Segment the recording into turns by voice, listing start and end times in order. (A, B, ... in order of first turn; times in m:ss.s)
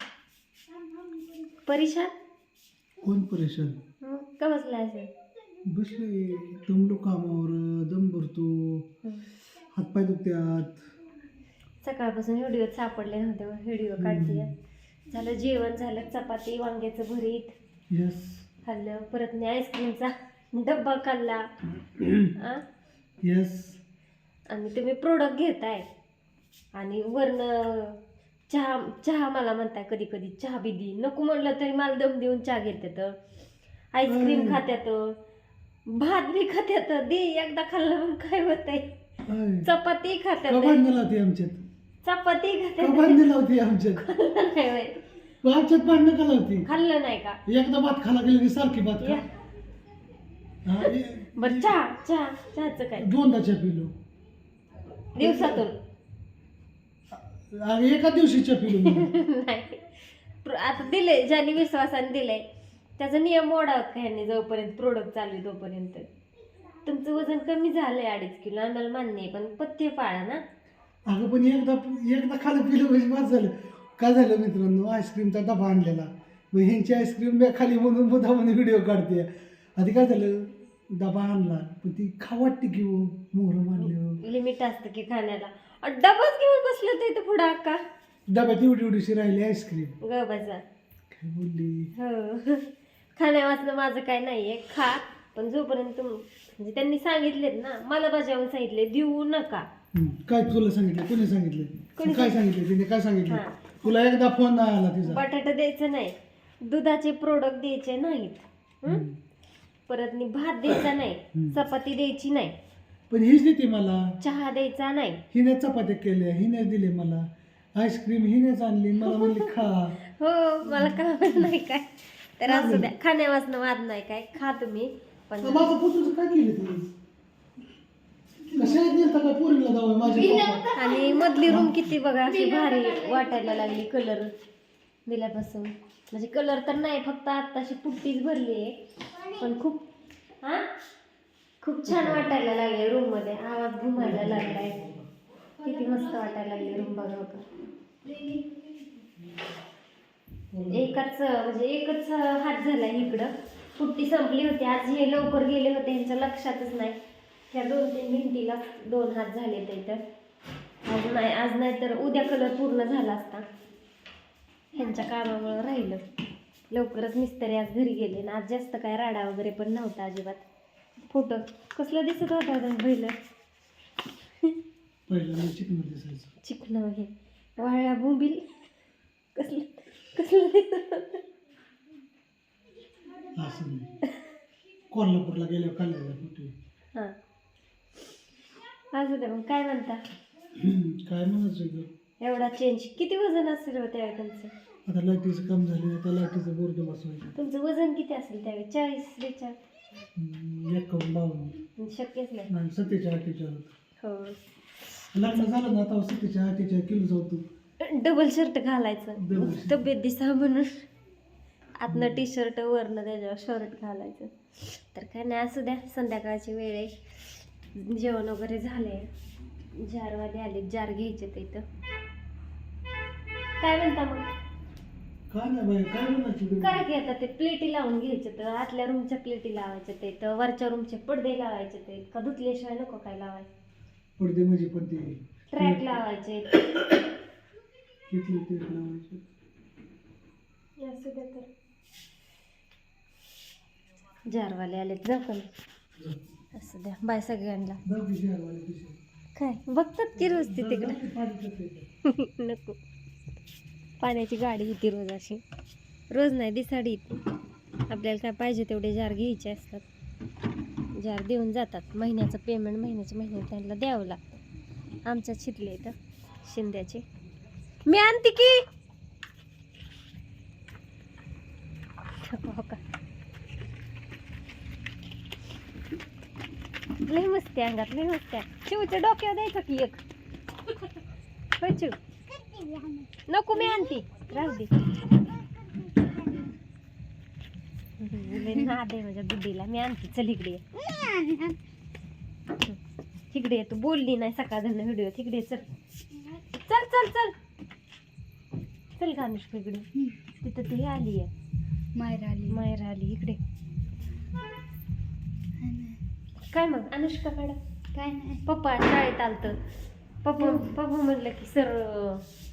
0:01.5-0:02.1 A
0:03.0-0:03.8 B
0:04.0-0:05.1 A
0:05.7-0:08.9 B
0:09.7-0:10.9 B
0:11.8-0:14.5 A
0:14.0-0:14.6 B
0:15.1-0:17.6 A
0:17.9-0:18.5 B
0:18.6-0:21.5 A
0:21.9-0:22.4 B
0:22.4-0:22.6 A
0:23.2-0:23.8 B
0:24.5-0:25.8 A
0:26.8-0:33.2 A
0:33.9-0:35.2 A
0:34.1-0:34.6 B
0:35.9-0:38.9 A
0:39.3-0:39.7 B
0:39.6-0:40.8 A
0:40.5-0:41.6 B
0:42.0-0:43.2 A
0:42.8-0:44.0 B
0:44.0-0:45.0 A
0:45.4-0:46.7 B
0:46.6-0:47.4 A
0:47.5-0:49.3 B
0:49.0-0:49.3 A
0:50.6-0:51.8 B
0:51.4-0:53.2 A
0:53.0-0:53.9 B
0:55.2-0:55.8 A
0:55.2-0:55.7 B
0:57.1-0:59.1 B
0:58.8-1:02.4 A
1:03.0-1:06.1 A
1:06.8-1:10.4 A
1:11.1-1:24.2 B
1:23.9-1:27.8 A
1:28.3-1:30.0 B
1:30.0-1:30.6 A
1:31.1-1:31.9 B
1:32.0-1:39.7 A
1:39.9-1:45.2 B
1:42.0-1:42.4 A
1:43.3-1:43.6 A
1:45.0-1:49.0 A
1:48.9-1:49.2 B
1:49.9-1:52.6 A
1:51.3-1:51.6 B
1:53.1-1:54.1 B
1:54.2-1:55.2 A
1:55.3-2:00.0 B
1:59.0-1:59.5 A
2:00.1-2:05.7 A
2:00.7-2:01.5 B
2:02.4-2:02.9 B
2:05.4-2:06.9 B
2:08.5-2:10.7 B
2:10.3-2:11.3 C
2:10.7-2:14.3 A
2:11.4-2:11.9 B
2:12.4-2:13.2 C
2:15.1-2:19.9 A
2:21.6-2:24.8 A
2:21.9-2:22.3 B
2:24.0-2:25.1 B
2:25.6-2:27.5 A
2:25.7-2:26.5 C
2:28.1-2:28.8 C
2:29.2-2:29.6 B
2:30.5-2:31.0 B
2:30.7-2:37.0 A
2:37.5-2:40.0 A
2:40.8-2:43.4 A
2:44.7-2:46.0 A
2:46.7-2:50.4 A
2:51.1-2:53.2 A
2:55.1-2:56.3 B
2:56.4-2:58.5 A
2:59.4-3:01.2 A
3:03.4-3:03.9 B
3:04.9-3:06.6 B
3:08.9-3:10.0 A
3:10.5-3:11.9 B
3:12.2-3:14.5 A
3:14.9-3:17.4 B
3:17.4-3:19.6 A
3:20.2-3:21.6 B
3:21.8-3:22.5 A
3:22.5-3:23.7 B
3:24.0-3:24.4 A
3:25.1-3:27.4 B
3:27.8-3:30.8 A
3:29.2-3:29.9 B
3:31.8-3:39.1 A
3:31.9-3:32.2 B
3:39.8-3:41.6 A
3:43.6-3:44.3 A
3:45.3-3:46.8 B
3:46.6-3:53.5 A
3:54.2-3:56.8 B
3:55.5-3:56.6 A
3:58.1-3:59.3 B
4:00.8-4:01.5 A
4:04.3-4:05.5 A
4:06.5-4:07.8 A
4:07.8-4:09.0 B
4:09.4-4:11.0 A
4:10.2-4:11.9 B
4:12.0-4:12.8 A
4:14.0-4:15.4 A
4:16.1-4:17.2 A
4:17.9-4:19.9 A
4:21.0-4:24.2 A
4:25.0-4:27.0 A
4:27.9-4:28.6 A
4:32.2-4:32.8 A
4:37.0-4:40.0 A
4:41.6-4:42.0 A
4:42.4-4:43.1 C
4:43.3-4:44.9 A
4:48.0-4:50.6 A
4:50.9-4:51.6 C
4:53.3-4:55.7 A
4:56.5-4:57.4 A
4:59.0-4:59.9 A
5:00.4-5:01.3 A
5:02.0-5:02.6 C
5:02.5-5:03.4 A
5:05.6-5:06.0 C
5:06.5-5:07.6 A
5:07.9-5:08.4 C
5:08.5-5:09.6 A
5:10.2-5:12.3 A
5:10.4-5:10.7 C